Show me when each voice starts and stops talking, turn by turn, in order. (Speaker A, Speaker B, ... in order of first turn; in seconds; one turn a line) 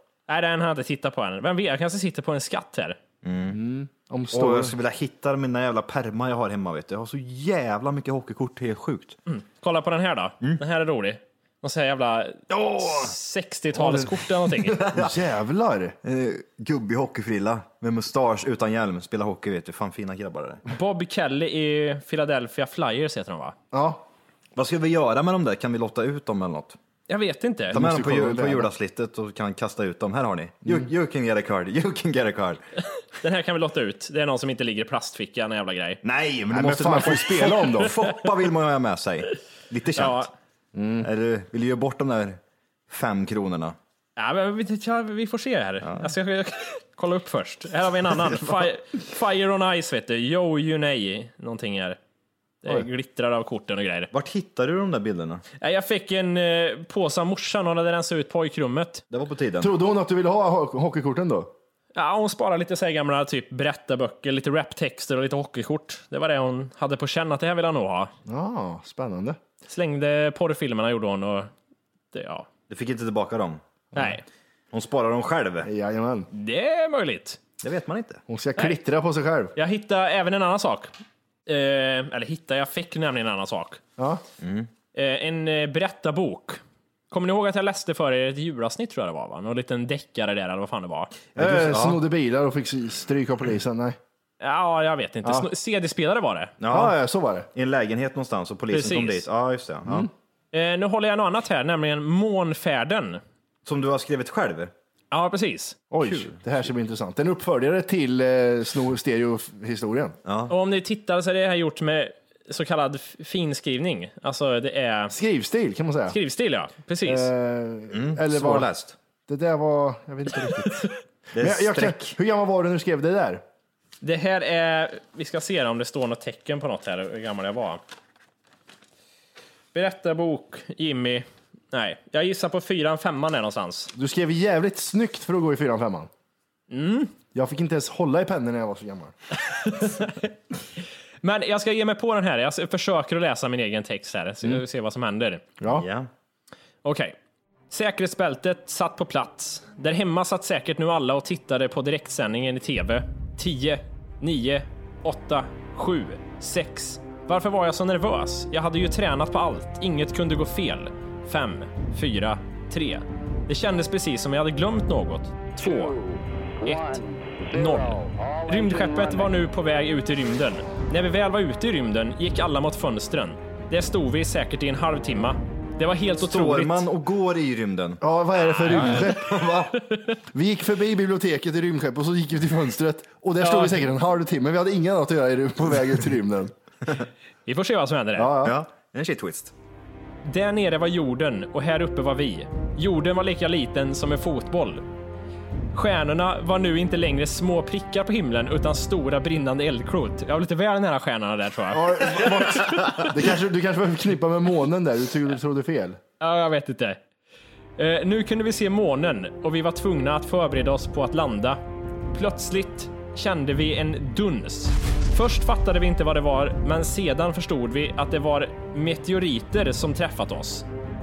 Speaker A: 0.3-3.0
Speaker B: 3.2-3.6
Speaker C: 3.5-4.7
Speaker B: 4.3-9.2
Speaker A: 9.3-14.8
Speaker B: 12.5-13.1
Speaker B: 14.6-15.2
Speaker C: 14.9-15.9
Speaker B: 16.0-20.6
Speaker A: 20.7-23.5
Speaker C: 23.7-24.0
Speaker B: 24.6-26.8
Speaker A: 27.1-27.8
Speaker C: 27.7-28.7
Speaker B: 27.7-32.6
Speaker A: 33.2-36.0
Speaker B: 36.0-40.3
Speaker C: 36.5-38.0
Speaker A: 40.0-40.3
Speaker C: 40.7-41.1
Speaker B: 41.0-43.8
Speaker A: 44.2-52.0
Speaker A: 52.6-54.1
Speaker B: 54.1-55.4
Speaker A: 55.6-59.0
Speaker B: 59.1-59.7
Speaker C: 59.6-61.5
Speaker A: 61.9-68.1
Speaker C: 68.2-69.4
Speaker A: 69.7-71.5
Speaker A: 72.1-72.5
Speaker B: 72.7-73.6
Speaker A: 73.9-74.2
Speaker B: 74.7-75.7
Speaker C: 75.6-76.3
Speaker A: 76.3-77.4
Speaker B: 77.6-78.2
Speaker C: 78.3-79.5
Speaker A: 79.5-80.9
Speaker A: 81.5-83.8
Speaker C: 84.0-84.2
Speaker B: 84.4-84.7
Speaker A: 84.9-91.1
Speaker B: 91.3-92.0
Speaker C: 91.3-94.0
Speaker A: 94.4-96.5
Speaker C: 95.2-95.5
Speaker B: 96.6-97.0
Speaker C: 96.7-97.5
Speaker B: 97.5-100.1
Speaker A: 98.7-99.2
Speaker A: 100.5-103.2
Speaker B: 103.6-104.7
Speaker A: 105.1-105.8
Speaker C: 105.9-110.2
Speaker B: 110.2-110.5
Speaker A: 110.5-115.1
Speaker C: 115.1-116.2
Speaker A: 116.1-117.3
Speaker C: 117.0-118.7
Speaker B: 117.9-118.9
Speaker C: 119.3-123.4
Speaker B: 121.3-122.2
Speaker A: 124.0-127.8
Speaker A: 129.7-133.9
Speaker C: 133.9-136.1
Speaker A: 136.7-137.1
Speaker C: 137.3-139.1
Speaker A: 139.5-140.3
Speaker A: 141.2-145.4
Speaker C: 145.6-145.8
Speaker B: 145.7-146.1
Speaker A: 146.8-147.2
Speaker A: 147.7-166.0
Speaker A: 166.6-176.9
Speaker B: 176.2-178.0
Speaker C: 178.0-179.4
Speaker B: 178.6-179.7
Speaker A: 178.7-179.2
Speaker A: 179.7-180.2
Speaker C: 180.3-186.5
Speaker A: 183.4-183.8
Speaker A: 187.4-188.3
Speaker C: 188.2-188.6
Speaker B: 188.4-189.5
Speaker A: 190.2-194.8
Speaker A: 195.7-203.1
Speaker C: 201.7-206.0
Speaker A: 206.2-207.0
Speaker A: 207.8-211.6
Speaker A: 212.1-220.7